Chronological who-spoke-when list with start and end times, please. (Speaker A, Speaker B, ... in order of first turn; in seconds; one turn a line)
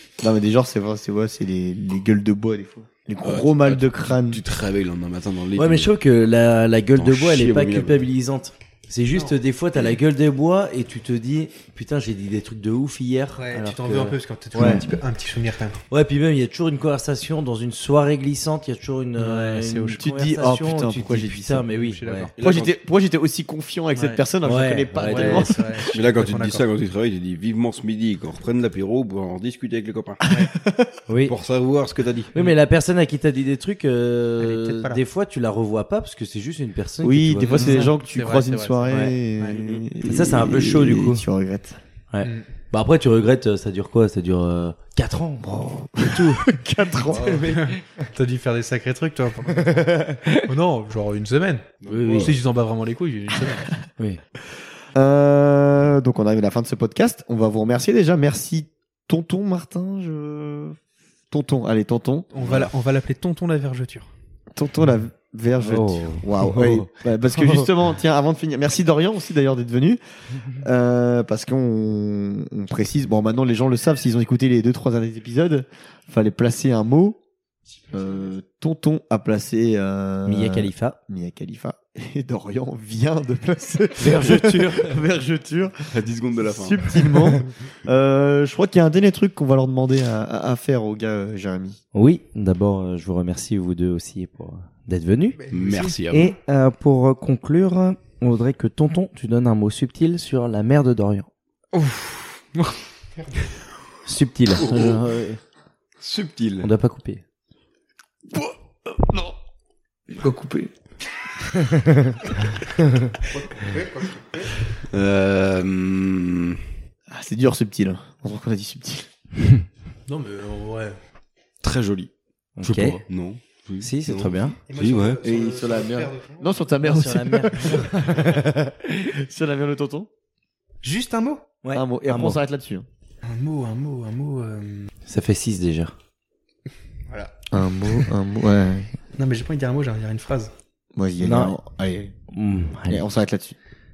Speaker A: 0.2-4.4
Speaker B: 3.2-6.0
Speaker C: 5.6-14.9
Speaker B: 6.9-8.1
Speaker D: 13.4-15.8
Speaker A: 14.6-14.8
Speaker C: 15.9-22.3
Speaker D: 19.2-20.0
Speaker A: 19.9-21.7
Speaker D: 21.7-22.3
Speaker B: 22.4-22.8
Speaker A: 22.4-25.9
Speaker D: 23.9-24.2
Speaker C: 24.4-25.6
Speaker D: 25.0-26.7
Speaker B: 25.9-30.3
Speaker A: 30.2-31.0
Speaker C: 31.1-31.3
Speaker B: 31.2-32.5
Speaker C: 32.3-37.9
Speaker D: 34.4-35.0
Speaker A: 37.0-41.8
Speaker D: 37.5-39.8
Speaker C: 38.9-39.1
Speaker C: 40.0-41.2
Speaker C: 42.1-46.5
Speaker A: 45.4-47.4
Speaker C: 47.1-47.8
Speaker D: 47.1-53.7
Speaker C: 49.6-50.4
Speaker B: 51.8-52.3
Speaker C: 51.9-52.4
Speaker A: 54.9-60.8
Speaker A: 61.3-62.7
Speaker D: 62.3-64.1
Speaker A: 64.5-77.2
Speaker C: 65.6-67.7
Speaker A: 77.9-91.8
Speaker C: 80.3-81.0
Speaker C: 84.0-85.0
Speaker B: 85.9-87.4
Speaker C: 91.9-95.4
Speaker D: 95.4-96.0
Speaker B: 95.5-96.4
Speaker C: 96.1-101.3
Speaker D: 101.7-103.5
Speaker C: 104.1-105.4
Speaker B: 104.5-105.0
Speaker B: 106.0-106.7
Speaker C: 106.6-107.2
Speaker A: 108.3-109.3
Speaker A: 110.1-110.7
Speaker C: 111.7-112.1
Speaker D: 113.3-114.6
Speaker B: 114.8-116.6
Speaker A: 117.1-119.1
Speaker D: 120.1-121.0
Speaker B: 121.6-122.1
Speaker C: 122.6-123.0
Speaker B: 122.6-125.2
Speaker C: 123.8-124.6
Speaker D: 124.7-126.5
Speaker A: 125.2-130.1
Speaker C: 126.8-128.7
Speaker D: 130.8-131.4
Speaker C: 131.6-132.4
Speaker A: 131.7-132.9
Speaker D: 133.2-134.9
Speaker C: 135.1-135.9
Speaker D: 137.1-137.3
Speaker A: 137.5-138.9
Speaker D: 139.2-140.5
Speaker A: 140.9-142.2
Speaker C: 141.2-141.6
Speaker C: 142.3-143.0
Speaker A: 142.9-143.6